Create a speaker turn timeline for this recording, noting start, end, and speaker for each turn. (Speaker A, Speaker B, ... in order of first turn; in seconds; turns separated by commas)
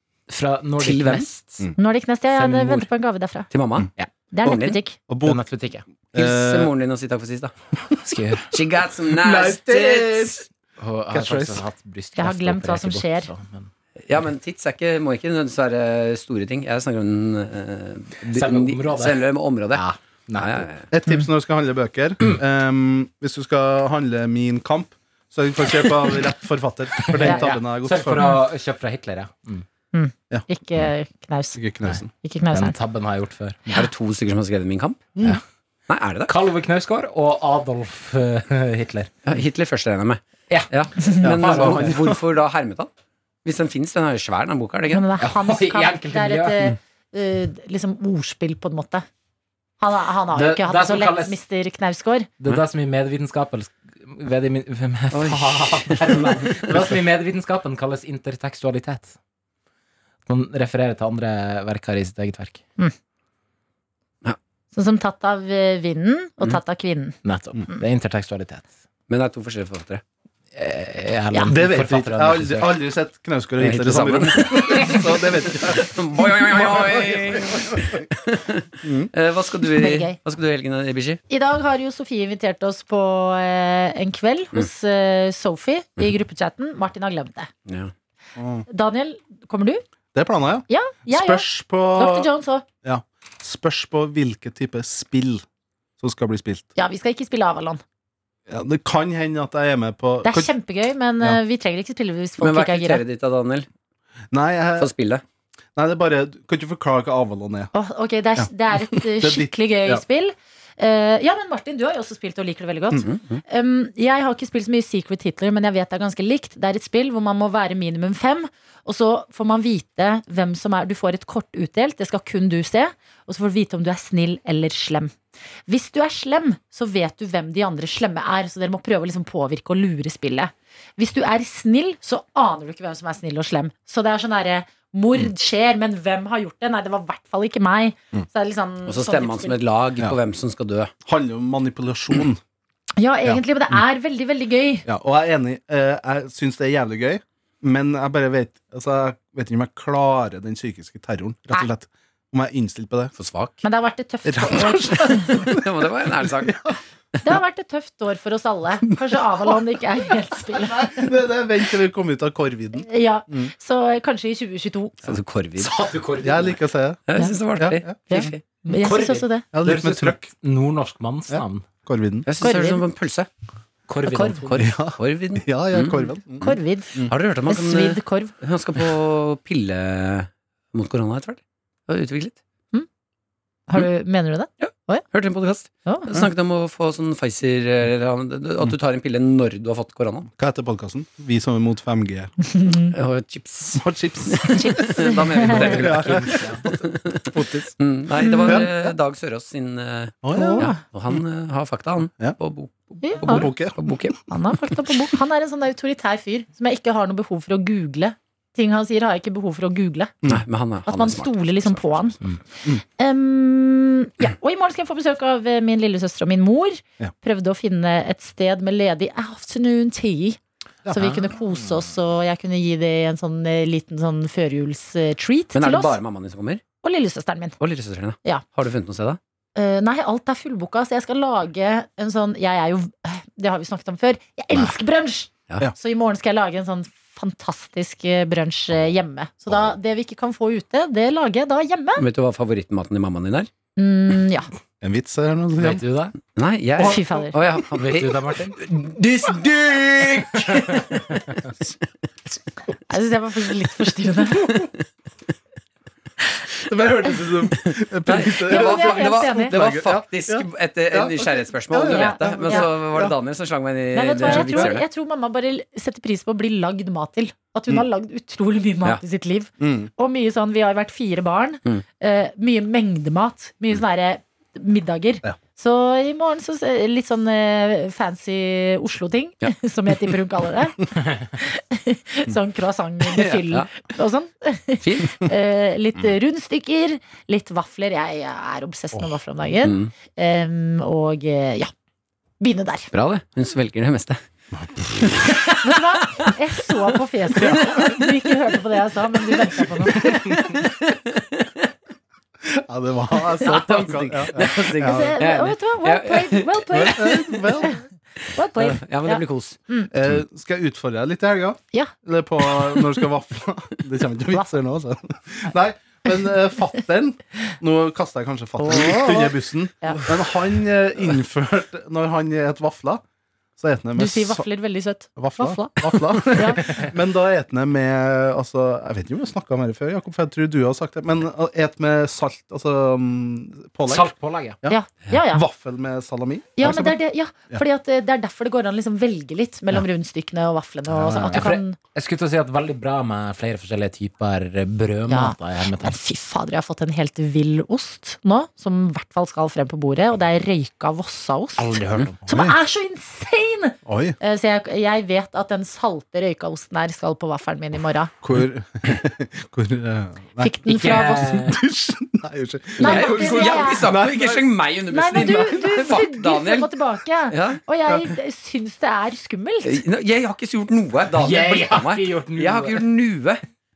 Speaker A: 0.3-1.7, Speaker B: 0.8-1.3, Speaker C: 1.8-3.5, Speaker A: 2.3-2.9, Speaker B: 3.5-3.9, Speaker C: 4.3-5.0, Speaker B: 4.4-4.8, Speaker D: 5.1-5.4, Speaker A: 5.2-5.8, Speaker D: 6.1-6.7, Speaker B: 6.2-7.5, Speaker A: 8.0-8.5, Speaker B: 8.5-10.4, Speaker D: 9.2-10.5, Speaker A: 10.8-13.7, Speaker D: 11.1-11.6, Speaker C: 12.2-13.3, Speaker B: 14.1-19.8, Speaker A: 18.3-20.7, Speaker B: 20.4-20.9, Speaker D: 20.9-28.3, Speaker A: 27.1-29.6, Speaker C: 27.2-27.5, Speaker C: 29.9-31.6, Speaker D: 31.6-32.1, Speaker C: 32.2-32.8, Speaker A: 32.5-33.8, Speaker B: 33.7-35.0, Speaker D: 35.1-35.4, Speaker B: 35.9-36.3, Speaker A: 36.3-39.1, Speaker B: 39.2-42.9, Speaker D: 41.2-42.2, Speaker A: 41.2-42.0, Speaker B: 43.4-45.1, Speaker C: 44.9-49.0, Speaker A: 45.2-46.6, Speaker C: 49.8-52.3, Speaker A: 50.3-51.4, Speaker A: 52.4-59.1, Speaker B: 55.1-56.9, Speaker A: 60.3-62.6, Speaker C: 64.7-67.2, Speaker A: 67.2-68.7, Speaker B: 69.1-70.0, Speaker A: 70.5-72.7, Speaker D: 71.5-78.1, Speaker B: 73.6-75.0, Speaker B: 75.6-81.2, Speaker D: 78.8-79.1, Speaker C: 79.8-80.2, Speaker C: 81.3-87.5, Speaker B: 87.7-87.9, Speaker D: 88.4-88.6, Speaker C: 88.7-89.8, Speaker D: 90.1-92.3, Speaker C: 90.7-92.7, Speaker D: 92.8-95.4, Speaker D: 96.0-96.7, Speaker C: 96.8-97.8, Speaker D: 98.5-100.5, Speaker C: 100.2-103.0, Speaker B: 102.4-103.7, Speaker D: 104.3-104.9, Speaker B: 104.8-105.2, Speaker D: 105.8-107.7, Speaker C: 107.7-125.1, Speaker D: 108.4-110.0, Speaker B: 113.0-113.4, Speaker C: 125.7-139.6, Speaker B: 138.9-140.9, Speaker D: 141.1-142.4, Speaker C: 143.0-144.9, Speaker D: 144.9-153.1, Speaker B: 153.2-153.6, Speaker C: 153.6-155.5, Speaker D: 154.2-155.7, Speaker B: 155.3-157.2, Speaker D: 156.2-156.8, Speaker C: 157.2-161.1, Speaker D: 160.5-163.5, Speaker C: 162.8-165.1, Speaker B: 165.0-165.8, Speaker A: 165.6-166.6, Speaker D: 166.2-167.0, Speaker B: 167.1-168.4, Speaker D: 167.6-168.3, Speaker C: 168.0-169.5, Speaker A: 168.7-171.7, Speaker D: 169.5-170.3, Speaker D: 171.3-172.3, Speaker B: 172.3-173.3, Speaker C: 172.4-172.8, Speaker A: 173.9-174.7, Speaker B: 174.1-176.6, Speaker C: 174.2-174.4, Speaker D: 174.6-177.1, Speaker C: 176.4-178.3, Speaker B: 177.1-182.4, Speaker C: 183.7-185.1, Speaker B: 184.6-190.3, Speaker C: 185.9-186.3, Speaker D: 190.4-192.3, Speaker C: 192.5-192.9, Speaker B: 192.9-204.2, Speaker D: 193.8-194.8, Speaker C: 194.5-195.8, Speaker D: 195.5-197.8, Speaker A: 195.8-196.6, Speaker C: 198.2-198.7, Speaker D: 198.4-198.9, Speaker D: 200.2-200.7, Speaker C: 200.3-200.8, Speaker C: 203.0-203.5, Speaker D: 203.2-204.2, Speaker C: 204.3-210.2, Speaker B: 210.3-212.1, Speaker C: 210.9-212.2, Speaker C: 212.8-226.0, Speaker D: 220.8-221.2, Speaker B: 225.5-226.6, Speaker C: 226.8-227.6, Speaker B: 227.6-229.2, Speaker C: 229.6-242.1, Speaker B: 242.0-243.5, Speaker C: 243.8-244.5, Speaker D: 244.8-245.8, Speaker A: 245.6-246.2, Speaker B: 246.3-251.0, Speaker C: 246.8-247.3, Speaker A: 247.8-248.6, Speaker C: 252.9-254.7, Speaker D: 254.4-254.7, Speaker D: 256.7-263.1, Speaker B: 258.1-264.9, Speaker C: 258.5-259.6, Speaker C: 261.8-262.7, Speaker C: 263.9-291.7, Speaker D: 264.2-264.7, Speaker D: 269.6-269.9, Speaker B: 283.1-283.7, Speaker B: 284.8-285.2, Speaker B: 289.6-289.9, Speaker C: 292.4-292.9, Speaker B: 292.9-294.2, Speaker B: 295.0-295.5, Speaker C: 295.5-300.4, Speaker B: 297.4-297.7, Speaker D: 297.4-297.9, Speaker B: 299.9-301.7, Speaker D: 302.4-305.2, Speaker B: 303.4-307.6, Speaker C: 304.5-307.8, Speaker D: 306.7-307.8, Speaker C: 308.3-309.9, Speaker B: 308.6-309.6, Speaker D: 309.9-323.0, Speaker C: 318.6-320.1, Speaker D: 323.6-324.5, Speaker C: 324.0-326.8, Speaker D: 325.2-337.0, Speaker A: 333.9-334.6, Speaker C: 334.7-335.4, Speaker C: 336.6-341.8, Speaker D: 340.9-341.6, Speaker A: 341.3-346.0, Speaker C: 345.1-358.1, Speaker A: 351.6-352.2, Speaker D: 352.3-352.6, Speaker D: 353.9-354.2, Speaker D: 358.2-360.6, Speaker C: 360.4-361.4, Speaker A: 360.7-361.6, Speaker D: 361.2-364.5, Speaker C: 362.8-363.9, Speaker B: 362.8-366.8, Speaker C: 364.9-369.8, Speaker D: 365.2-365.9, Speaker B: 367.3-367.6, Speaker B: 369.6-373.4, Speaker A: 371.1-372.8